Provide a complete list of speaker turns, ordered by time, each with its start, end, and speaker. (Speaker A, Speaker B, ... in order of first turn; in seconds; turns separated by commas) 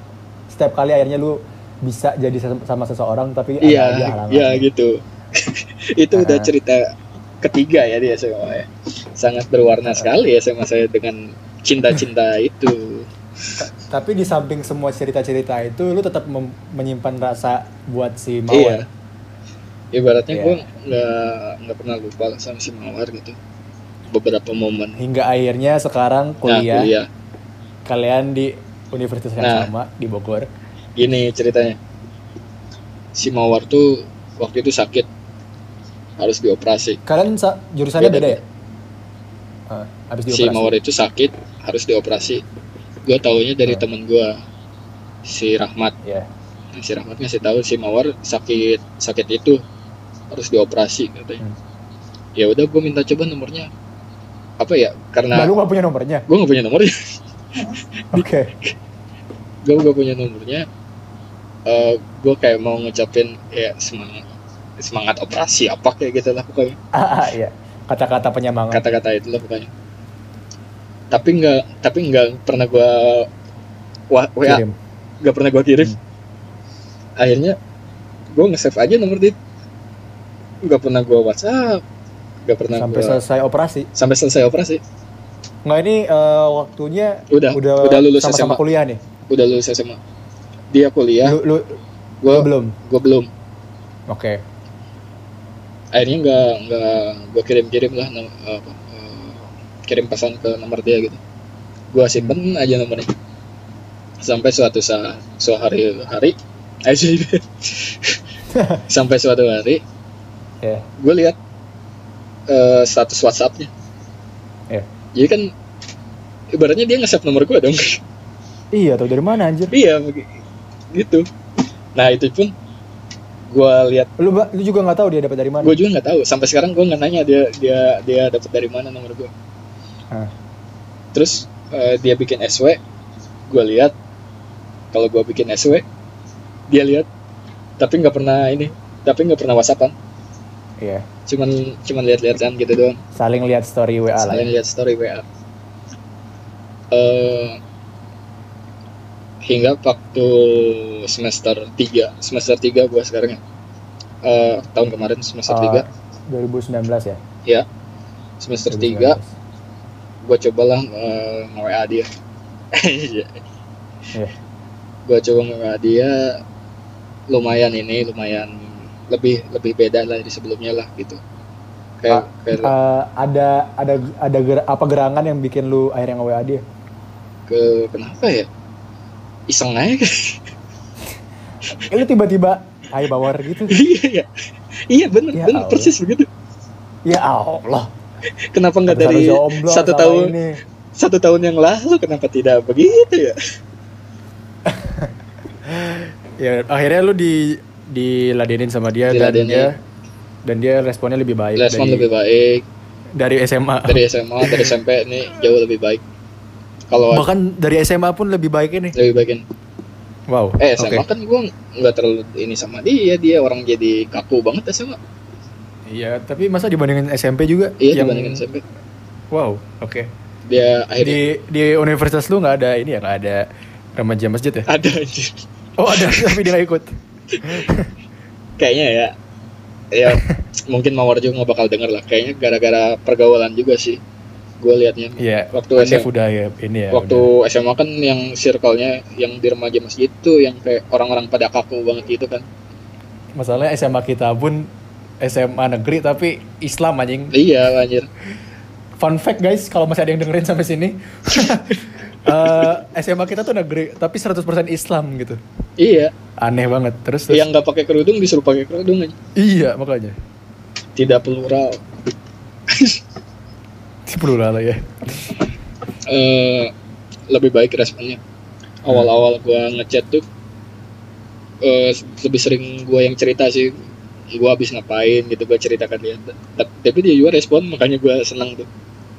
Speaker A: 0.5-4.6, Speaker B: 3.6-6.9, Speaker A: 6.1-6.5, Speaker B: 7.4-13.1, Speaker A: 13.6-18.8, Speaker B: 18.5-18.9, Speaker B: 19.9-23.4, Speaker A: 20.3-20.6, Speaker B: 24.1-25.0, Speaker A: 25.0-26.9, Speaker B: 26.4-27.1, Speaker A: 27.9-30.5, Speaker B: 29.4-29.7, Speaker B: 30.9-31.8, Speaker B: 33.1-35.1, Speaker B: 36.2-37.0, Speaker A: 37.0-38.4, Speaker B: 38.0-38.4, Speaker A: 39.7-40.7, Speaker B: 40.3-42.4, Speaker B: 43.0-44.4, Speaker B: 45.2-45.9, Speaker B: 46.7-49.6, Speaker B: 50.3-51.4, Speaker B: 52.4-53.7, Speaker B: 54.6-55.5, Speaker A: 55.3-56.3, Speaker B: 56.3-57.2, Speaker A: 58.1-58.6, Speaker B: 58.1-58.7, Speaker B: 59.6-60.7, Speaker B: 61.6-64.3, Speaker B: 64.8-66.8, Speaker A: 66.9-68.8, Speaker B: 68.7-69.7, Speaker B: 71.1-73.3, Speaker B: 74.1-74.6, Speaker A: 74.4-74.7, Speaker B: 75.2-75.9, Speaker B: 77.2-77.6, Speaker B: 78.3-79.3, Speaker B: 80.6-81.8, Speaker B: 82.5-83.2, Speaker A: 82.7-83.9, Speaker B: 83.9-84.8, Speaker A: 85.6-89.0, Speaker B: 87.3-88.6, Speaker B: 89.3-90.0, Speaker B: 90.7-91.4, Speaker A: 91.2-92.8, Speaker B: 92.2-93.3, Speaker A: 94.1-94.4, Speaker B: 95.9-101.2, Speaker B: 101.9-103.1, Speaker B: 104.2-108.2, Speaker A: 108.5-108.8, Speaker B: 108.9-109.8, Speaker B: 111.0-111.4, Speaker B: 112.5-113.7, Speaker B: 115.1-115.5, Speaker B: 116.5-118.0, Speaker A: 118.7-119.7, Speaker B: 119.7-120.4, Speaker B: 120.9-121.2, Speaker B: 121.9-122.5, Speaker B: 123.5-124.1, Speaker A: 124.2-125.8, Speaker B: 125.6-129.3, Speaker B: 131.1-132.8, Speaker B: 133.5-133.9, Speaker B: 134.9-135.8, Speaker B: 136.7-137.1, Speaker B: 137.8-139.9, Speaker A: 140.8-141.1, Speaker B: 141.3-143.0, Speaker A: 143.1-144.5, Speaker B: 144.1-145.2, Speaker B: 146.9-147.6, Speaker B: 149.4-153.4, Speaker B: 154.2-155.8, Speaker A: 155.5-157.2, Speaker B: 158.4-159.2, Speaker A: 158.7-159.3, Speaker B: 160.2-162.1, Speaker B: 162.7-163.4, Speaker B: 165.1-166.4, Speaker B: 167.3-171.2, Speaker B: 172.0-172.7, Speaker A: 172.1-176.6, Speaker B: 177.5-178.5, Speaker B: 179.5-180.4, Speaker A: 181.7-183.8, Speaker B: 183.7-184.3, Speaker B: 184.9-186.3, Speaker A: 185.3-185.9, Speaker A: 187.1-187.9, Speaker B: 188.5-190.3, Speaker A: 188.9-190.6, Speaker B: 190.9-193.4, Speaker A: 194.7-195.1, Speaker A: 195.7-199.8, Speaker B: 199.1-199.7, Speaker A: 200.4-202.1, Speaker B: 201.6-202.7, Speaker A: 203.2-204.7, Speaker B: 203.9-206.0, Speaker B: 206.9-207.2, Speaker A: 207.1-208.9, Speaker B: 208.9-209.4, Speaker A: 210.3-211.1, Speaker B: 210.6-215.0, Speaker A: 215.9-218.4, Speaker B: 217.8-218.6, Speaker A: 219.3-220.1, Speaker B: 220.5-221.3, Speaker A: 221.0-223.4, Speaker A: 223.9-224.7, Speaker B: 224.7-226.5, Speaker A: 225.8-227.9, Speaker B: 227.4-227.6, Speaker B: 228.6-229.1, Speaker B: 229.9-234.0, Speaker A: 230.1-230.4, Speaker B: 234.6-236.1, Speaker A: 235.2-237.3, Speaker B: 236.9-242.4, Speaker A: 243.4-244.7, Speaker A: 245.2-247.3, Speaker B: 247.3-248.1, Speaker A: 249.0-255.4, Speaker B: 252.4-252.7, Speaker B: 255.8-256.1, Speaker A: 256.4-257.4, Speaker B: 257.3-259.1, Speaker A: 259.4-260.1, Speaker B: 260.9-261.8, Speaker B: 262.7-263.0, Speaker A: 264.1-265.3, Speaker B: 266.1-266.7, Speaker B: 267.3-268.2, Speaker B: 268.8-270.2, Speaker B: 271.6-273.8, Speaker B: 274.3-278.7